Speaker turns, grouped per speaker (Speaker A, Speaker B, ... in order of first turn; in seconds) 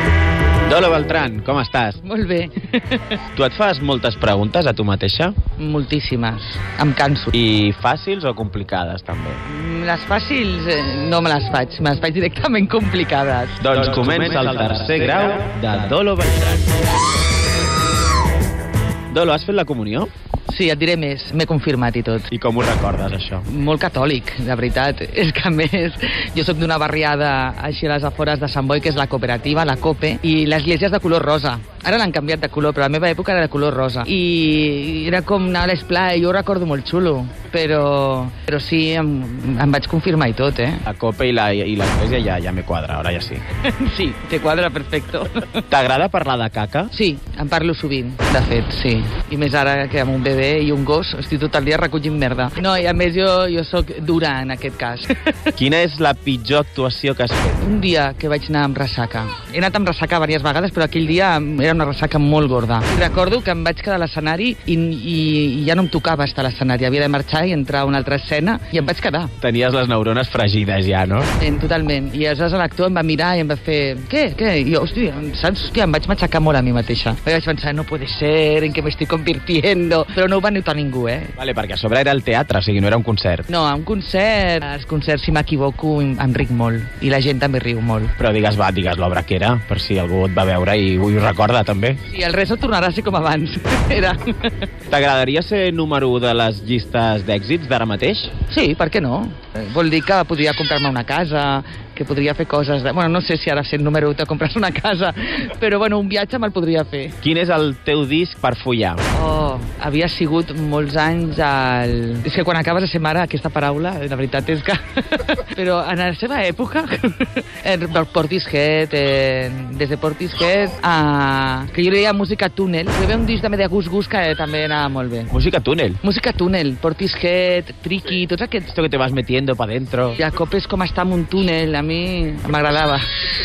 Speaker A: 0.7-2.0, 3.4-5.3, 7.3-9.4, 13.6-16.7, 19.1-20.1, 22.3-23.5, 40.9-43.4, 45.7-46.9, 55.6-57.6, 69.4-71.3, 81.4-83.5, 88.2-92.0, 94.9-98.3, 107.2-109.0, 125.3-126.0, 128.7-130.2
Speaker B: 2.0-3.2, 5.6-7.3, 9.4-13.6, 20.5-22.3, 23.5-40.8, 43.6-45.6, 46.9-55.5, 57.6-69.3, 71.3-81.3, 83.5-88.1, 92.1-94.7, 98.5-107.2, 109.1-125.3, 126.0-128.7, 130.2-133.1